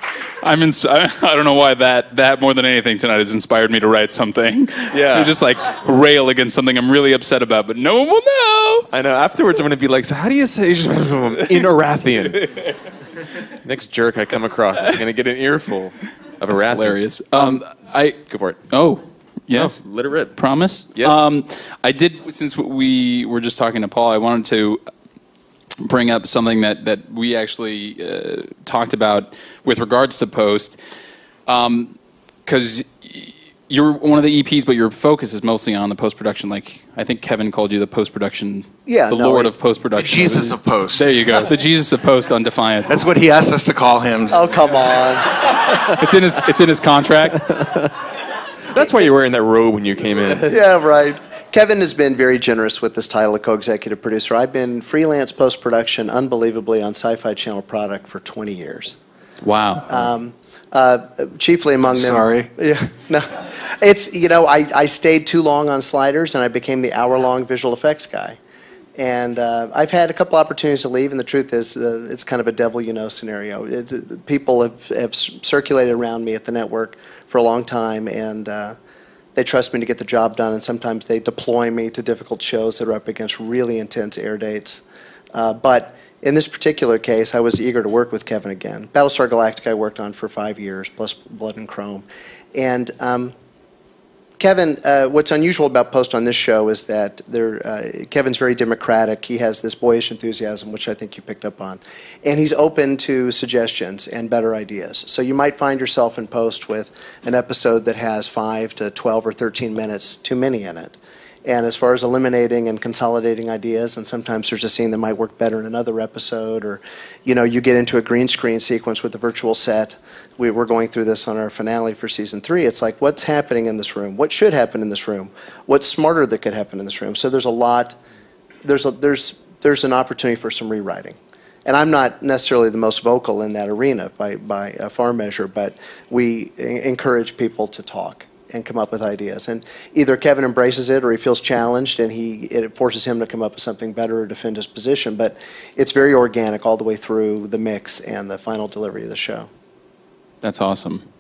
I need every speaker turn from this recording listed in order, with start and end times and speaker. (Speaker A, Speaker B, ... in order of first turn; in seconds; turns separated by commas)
Speaker A: 0.4-8.9, Speaker B: 4.9-5.4, Speaker B: 8.9-12.8, Speaker B: 13.4-17.6, Speaker A: 16.5-19.8, Speaker B: 18.2-18.7, Speaker B: 19.5-20.4, Speaker A: 20.4-24.8, Speaker A: 25.8-30.8, Speaker A: 31.5-43.0, Speaker C: 38.9-39.5, Speaker D: 40.0-41.2, Speaker D: 42.9-44.7, Speaker C: 44.3-45.5, Speaker A: 45.8-47.5, Speaker B: 47.3-48.0, Speaker B: 48.7-50.6, Speaker C: 50.5-59.0, Speaker A: 59.4-59.9, Speaker C: 59.9-68.4, Speaker D: 61.9-62.5, Speaker C: 69.0-78.8, Speaker C: 79.3-84.8, Speaker C: 85.3-93.3, Speaker C: 94.4-128.0, Speaker C: 128.6-149.5, Speaker A: 150.4-151.1